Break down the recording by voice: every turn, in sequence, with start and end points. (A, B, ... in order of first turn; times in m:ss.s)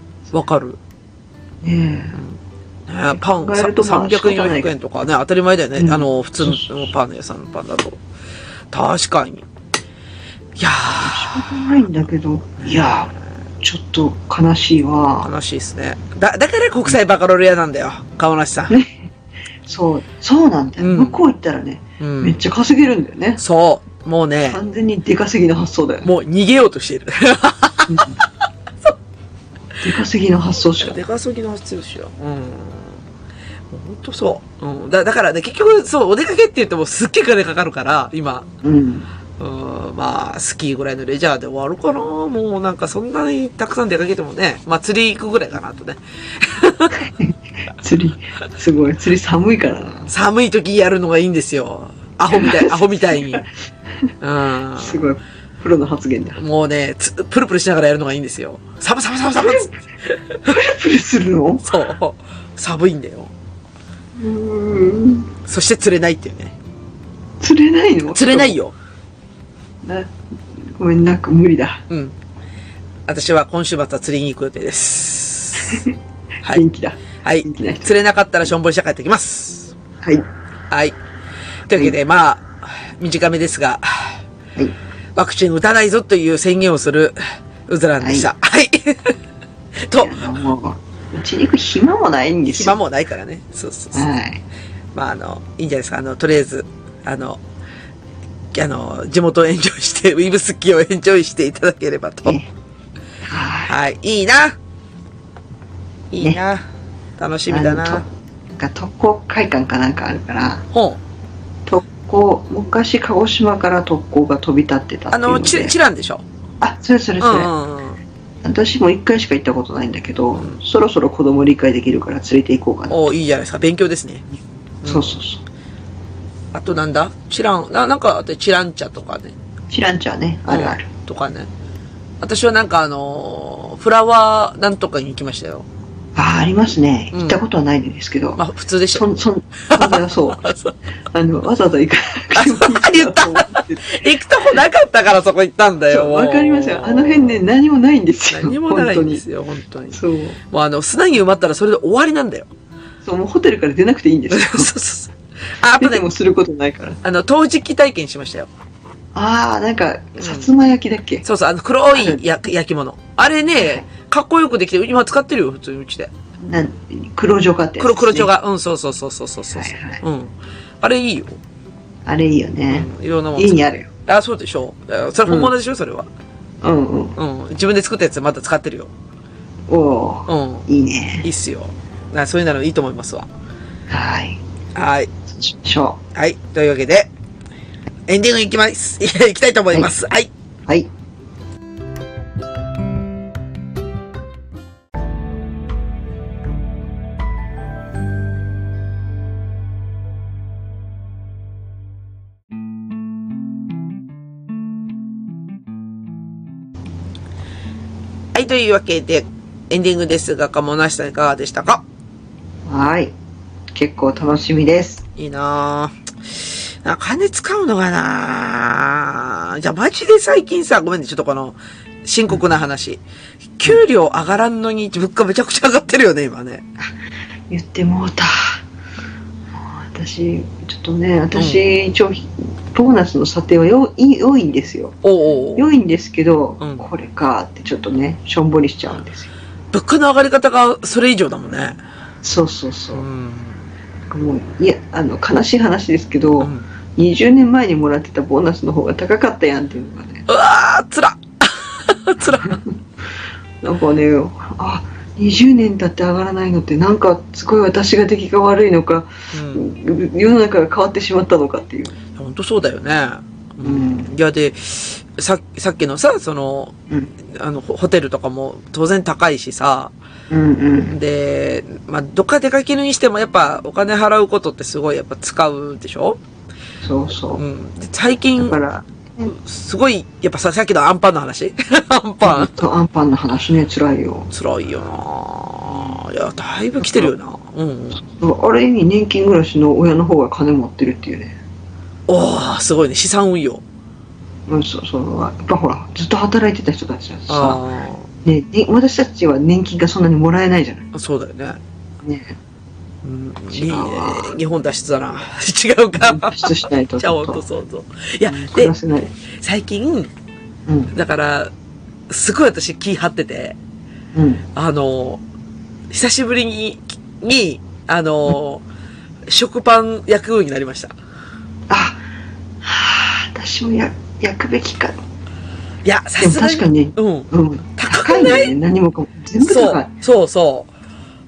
0:00.3-0:00.8 A
0:01.6-0:02.2 B
0:02.9-0:08.0 A
0:03.1-0:04.7 B
0:05.8-0:06.9 B
0:08.7-0:09.4 A
0:10.6-0:11.7 A
0:10.9-0:15.3 B
0:12.6-0:13.0 A
0:15.2-0:18.8 A
0:18.7-0:19.1 B
0:19.6-0:23.4 B
0:20.8-0:21.2 A
0:22.0-0:22.4 A
0:23.4-0:24.6 A
0:24.4-0:26.1 B
0:26.0-0:28.2 A
0:27.9-0:28.2 B
0:29.8-0:31.0 B
0:30.8-0:33.0 A
0:33.7-0:38.5 A
0:38.6-0:39.1 B
0:39.4-0:47.1 A
0:47.0-0:50.1 B
0:50.1-0:53.4 A
0:52.3-0:53.5 B
0:54.2-0:55.1 A
0:54.7-0:56.4 B
0:56.4-1:00.5 A
0:59.4-0:59.8 B
1:00.4-1:01.7 B
1:01.6-1:03.3 A
1:04.2-1:05.3 B
1:05.4-1:06.5 A
1:07.4-1:08.6 B
1:08.1-1:08.7 A
1:09.8-1:11.8 B
1:11.9-1:12.2 A
1:13.0-1:15.8 A
1:15.6-1:15.9 B
1:16.5-1:17.9 B
1:17.2-1:19.7 A
1:20.7-1:21.0 A
1:21.7-1:24.2 A
1:25.1-1:29.2 A
1:28.0-1:28.3 B
1:29.8-1:30.3 A
1:29.9-1:32.8 B
1:32.5-1:34.1 A
1:33.9-1:34.4 B
1:34.9-1:37.4 A
1:38.5-1:42.4 A
1:43.2-1:43.7 B
1:43.6-1:44.6 A
1:46.1-1:46.6 A
1:47.2-1:48.0 A
1:47.5-1:50.6 B
1:50.7-1:51.0 A
1:51.7-1:55.7 B
1:55.1-1:56.2 A
1:56.6-1:57.5 B
1:57.2-1:58.0 A
1:58.4-2:03.0 B
2:02.9-2:04.2 A
2:04.8-2:05.2 A
2:04.8-2:05.4 B
2:06.5-2:09.3 A
2:09.7-2:10.9 B
2:10.5-2:11.5 A
2:12.2-2:15.7 A
2:16.2-2:20.5 B
2:17.1-2:17.4 A
2:18.4-2:19.1 A
2:19.7-2:20.7 A
2:21.1-2:24.0 B
2:22.3-2:27.4 A
2:25.9-2:29.2 B
2:28.3-2:32.5 A
2:29.9-2:30.4 B
2:33.0-2:34.7 B
2:34.3-2:36.0 A
2:35.8-2:37.0 B
2:37.0-2:38.5 A
2:39.1-2:41.2 B
2:40.2-2:40.5 A
2:41.2-2:46.1 A
2:41.9-2:42.2 B
2:43.6-2:43.8 B
2:46.4-2:48.3 B
2:47.8-2:51.4 A
2:49.5-2:50.0 B
2:52.0-2:53.9 B
2:52.7-2:56.1 A
2:55.2-2:55.5 B
2:56.6-2:57.2 B
2:57.2-2:58.9 A
2:59.7-3:01.3 B
3:00.3-3:00.7 A
3:01.2-3:03.3 A
3:03.9-3:04.4 B
3:04.7-3:05.1 A
3:05.3-3:06.0 B
3:06.1-3:07.1 A
3:08.1-3:10.3 A
3:28.3-3:31.8 A
3:32.7-3:33.1 B
3:33.7-3:35.0 B
3:35.2-3:43.0 A
3:43.6-3:46.6 A
3:47.5-3:48.6 B
3:49.5-3:55.0 B
3:51.3-3:51.6 A
3:55.0-3:55.7 A
3:55.6-3:59.3 B
3:56.6-3:56.8 A
3:59.7-4:01.8 A
4:02.2-4:03.1 B
4:02.9-4:03.7 A
4:04.1-4:10.2 B
4:06.4-4:06.6 A
4:10.3-4:12.6 A
4:13.6-4:22.0 B
4:19.3-4:19.7 A
4:22.1-4:29.9 A
4:23.6-4:24.1 B
4:30.3-4:31.0 B
4:30.9-4:36.2 A
4:36.8-4:37.4 B
4:37.4-4:38.6 A
4:38.4-4:39.3 B
4:39.3-4:42.6 A
4:42.2-4:44.3 B
4:44.3-4:48.0 A
4:45.7-4:46.0 B
4:48.0-4:51.4 B
4:52.1-4:53.6 A
4:54.5-4:57.6 B
4:57.3-4:58.1 A
4:58.2-5:00.9 B
5:00.9-5:01.6 A
5:02.0-5:02.4 B
5:03.0-5:08.7 A
5:03.5-5:04.4 B
5:06.0-5:07.4 B
5:08.2-5:09.1 B
5:09.3-5:10.1 A
5:10.7-5:10.9 B
5:10.9-5:11.5 A
5:12.1-5:13.6 A
5:14.1-5:14.4 B
5:14.5-5:15.2 A
5:15.9-5:18.6 A
5:19.3-5:20.9 A
5:21.7-5:22.0 B
5:22.6-5:25.0 B
5:25.8-5:28.5 A
5:26.2-5:29.9 B
5:29.4-5:30.7 A